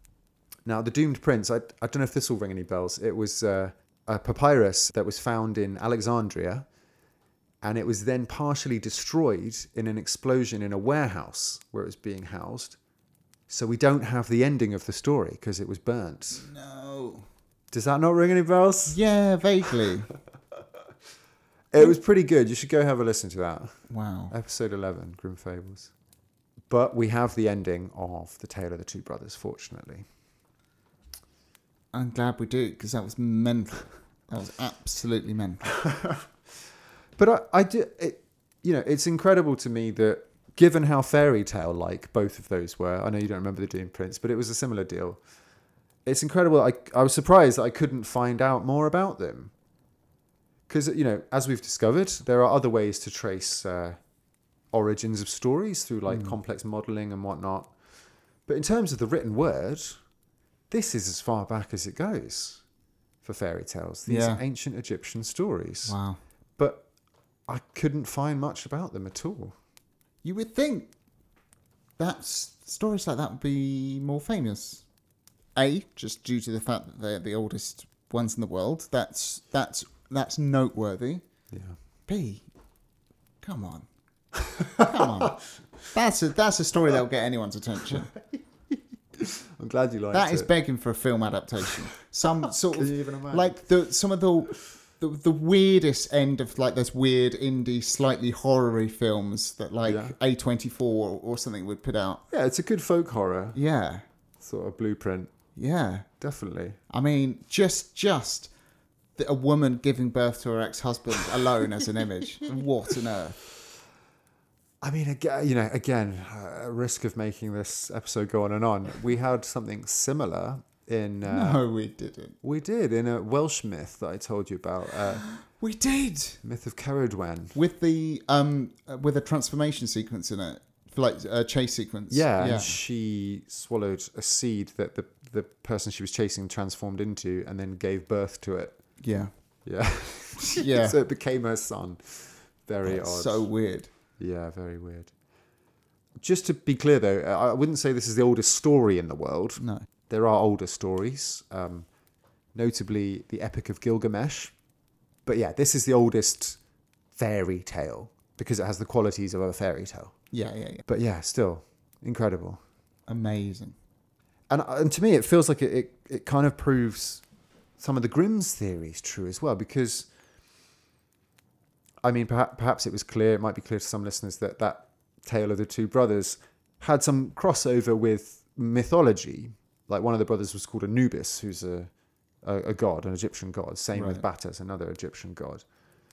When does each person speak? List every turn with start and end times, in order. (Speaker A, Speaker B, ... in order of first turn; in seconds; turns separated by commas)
Speaker A: 0.7-6.7, Speaker A: 7.6-12.8, Speaker A: 13.5-16.5, Speaker B: 16.4-17.3, Speaker A: 17.7-19.0, Speaker B: 18.9-20.1, Speaker A: 21.7-23.8, Speaker B: 23.9-24.3, Speaker A: 24.3-25.9, Speaker A: 26.7-30.1, Speaker B: 31.9-35.7, Speaker A: 35.8-36.2, Speaker A: 37.2-45.2, Speaker A: 46.0-49.5, Speaker A: 50.7-54.0, Speaker A: 54.7-57.7, Speaker B: 56.1-56.4, Speaker A: 58.5-60.0, Speaker A: 60.7-62.6, Speaker A: 63.2-66.0, Speaker B: 64.1-64.4, Speaker B: 65.9-66.2, Speaker A: 66.6-66.9, Speaker A: 67.5-69.5, Speaker B: 70.2-70.9, Speaker B: 72.0-74.8, Speaker B: 75.6-81.2, Speaker A: 81.5-81.8, Speaker B: 82.1-82.5, Speaker B: 83.4-83.9, Speaker A: 84.5-85.3, Speaker B: 84.8-88.1, Speaker A: 88.3-90.5, Speaker B: 90.1-102.2, Speaker A: 92.7-93.6, Speaker A: 99.9-100.2, Speaker A: 102.3-103.6, Speaker B: 103.5-104.0, Speaker A: 104.4-105.3, Speaker B: 105.6-106.1, Speaker A: 106.2-106.8, Speaker B: 106.9-108.5, Speaker B: 109.2-113.4, Speaker A: 114.8-121.6, Speaker B: 121.2-122.4, Speaker A: 122.4-125.2, Speaker B: 125.4-126.4, Speaker A: 126.4-127.6, Speaker B: 127.5-132.8, Speaker A: 132.1-138.8, Speaker B: 139.0-139.3, Speaker A: 139.7-143.5, Speaker B: 140.4-141.0, Speaker B: 142.8-143.9, Speaker A: 144.2-145.1, Speaker A: 146.2-151.9, Speaker B: 149.6-149.9, Speaker A: 152.6-154.5, Speaker A: 155.3-156.6, Speaker A: 157.1-160.2, Speaker B: 160.3-160.9, Speaker A: 160.9-162.6, Speaker B: 163.1-163.8, Speaker A: 164.5-167.2, Speaker A: 167.8-170.1, Speaker A: 172.0-181.9, Speaker A: 182.4-185.6, Speaker B: 183.9-184.2